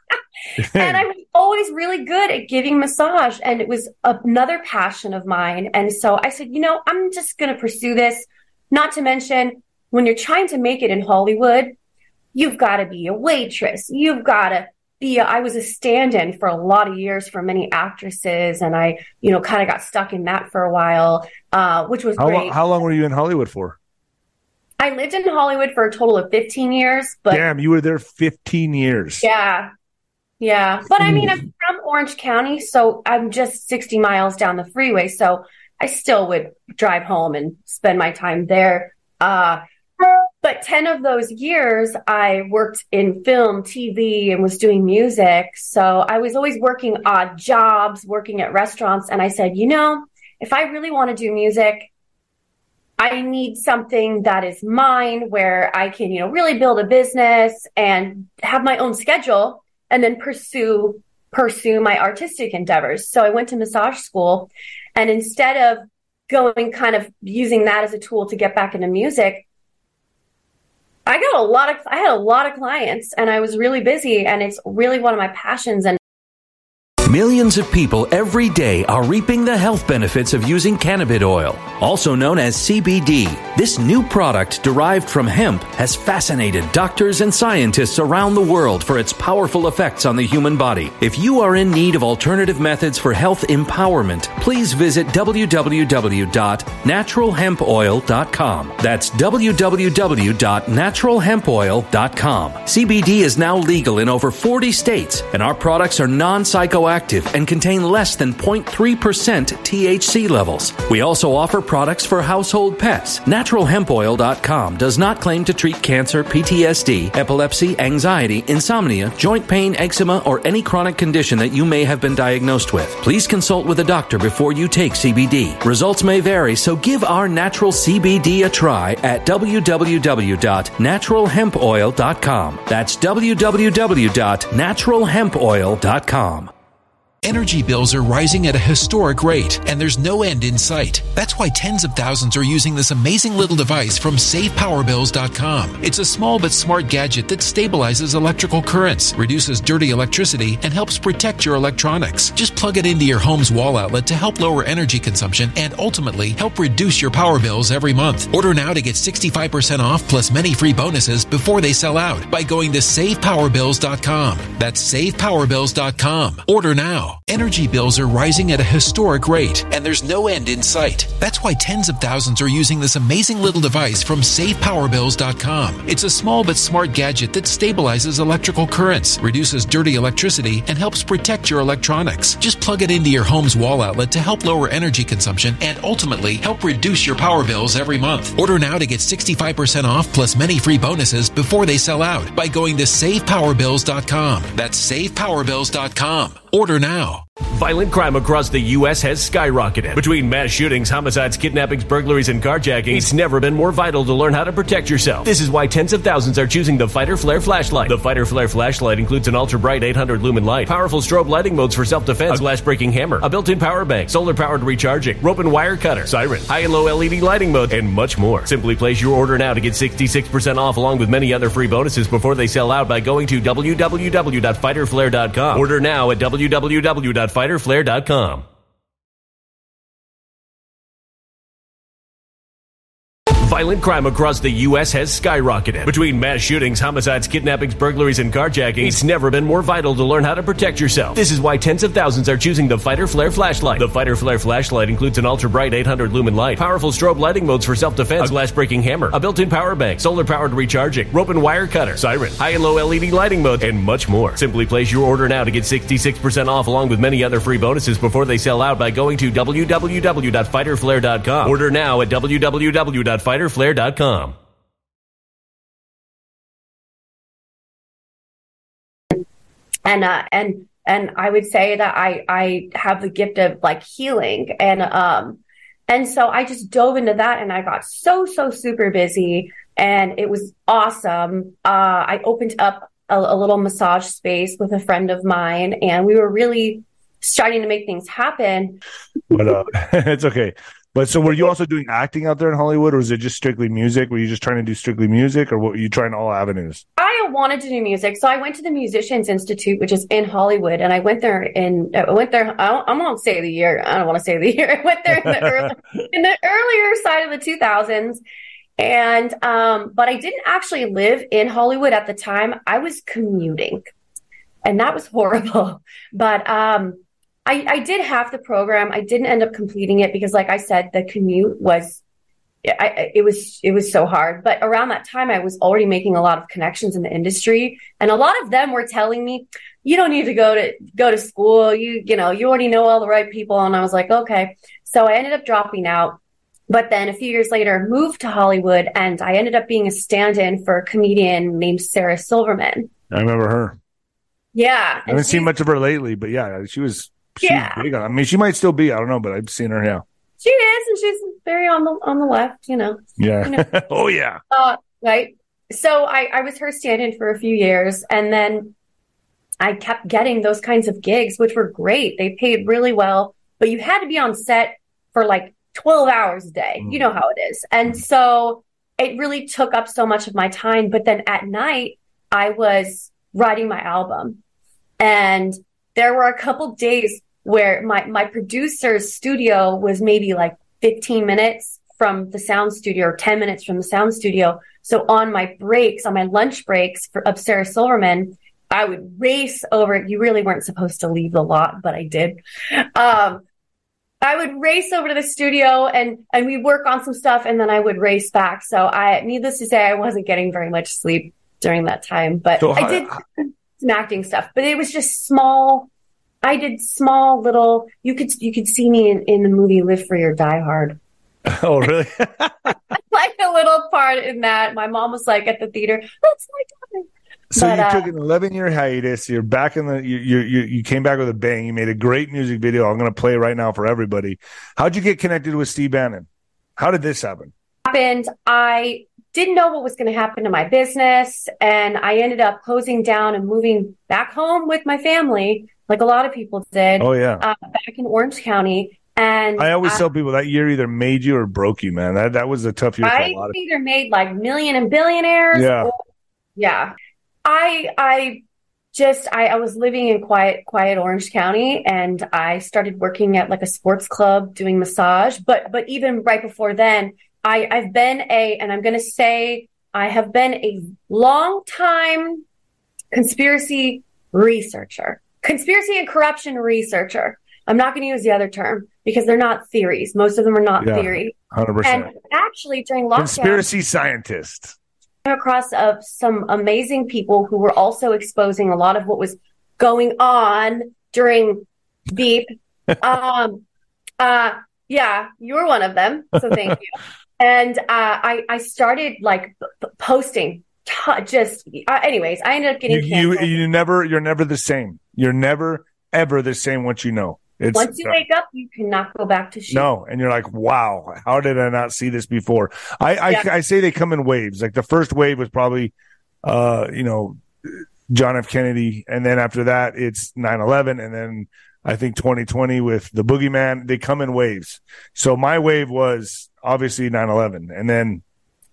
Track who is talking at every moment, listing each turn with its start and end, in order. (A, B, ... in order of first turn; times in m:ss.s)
0:00.6-0:01.0 A
0:00.7-0:11.7 B
0:12.3-0:22.6 B
0:22.2-0:23.8 A
0:24.8-0:27.4 B
0:27.3-0:29.2 A
0:29.2-0:29.7 B
0:30.4-0:39.6 B
0:31.0-0:31.3 A
0:40.4-0:51.9 B
0:53.0-1:09.4 B
1:11.1-1:16.0 B
1:17.0-2:16.5 C
2:17.2-3:17.2 D
3:17.5-3:48.4 E
3:53.4-4:24.3 E
4:29.8-4:48.8 B
4:49.3-4:56.8 A
4:57.0-5:08.2 B
5:05.2-5:05.7 A
5:08.8-5:13.9 B
5:14.6-5:22.0 B
5:22.6-5:42.9 B
5:43.1-5:43.8 A
5:44.5-5:45.5 B
5:45.1-5:50.0 A
5:47.4-5:47.8 B
5:50.4-5:53.7 B
5:53.2-5:54.4 A
5:54.5-5:58.7 B
5:59.6-6:14.4 B
6:06.8-6:07.1 A
6:15.0-6:33.4 B
6:34.2-6:45.9 B
6:42.6-6:43.2 A
6:46.4-6:51.0 B
6:51.5-6:52.8 A
6:52.9-6:58.1 B
6:57.5-7:07.5 A
7:07.8-7:20.0 B
7:17.0-7:17.4 A
7:19.6-7:23.6 A
7:23.0-7:26.0 B
7:25.5-7:25.9 A
7:26.6-7:26.9 B
7:27.4-7:28.4 B
7:28.9-7:42.4 B
7:43.1-7:53.6 B
7:50.8-7:52.1 A
7:53.2-7:54.7 A
7:55.2-8:03.6 B
8:04.2-8:13.6 B
8:12.9-8:18.2 A
8:17.7-8:19.9 B
8:19.7-8:25.9 A
8:26.4-8:38.2 A